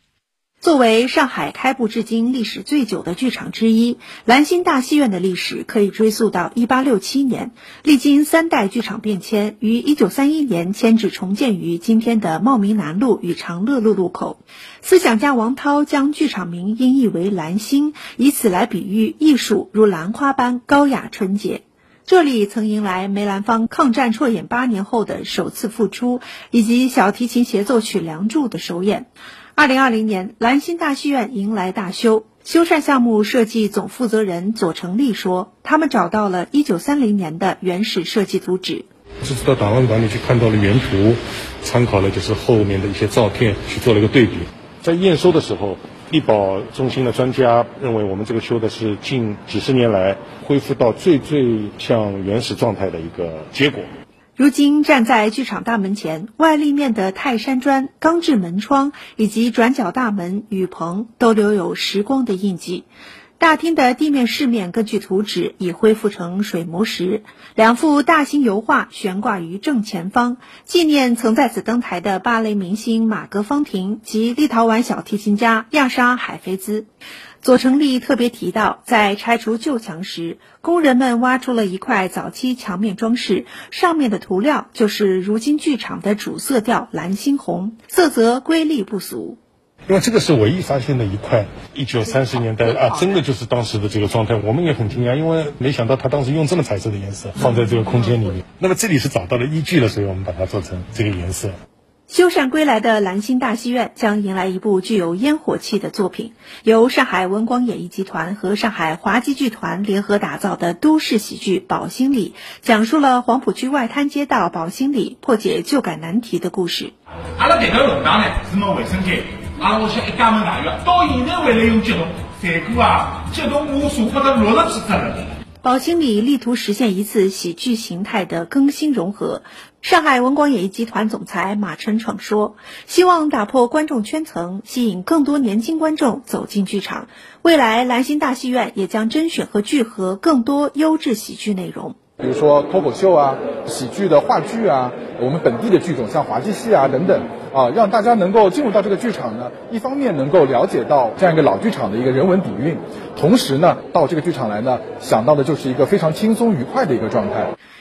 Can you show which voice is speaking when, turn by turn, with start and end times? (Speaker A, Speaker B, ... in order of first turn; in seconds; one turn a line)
Speaker A: 0.6-38.9
Speaker B: 39.2-53.9
Speaker A: 54.4-62.9
Speaker A: 63.4-76.9
Speaker A: 77.4-89.4
Speaker B: 89.9-101.6
Speaker A: 102.1-116.9
Speaker C: 117.4-125.3
Speaker A: 125.6-142.0
Speaker D: 142.2-157.5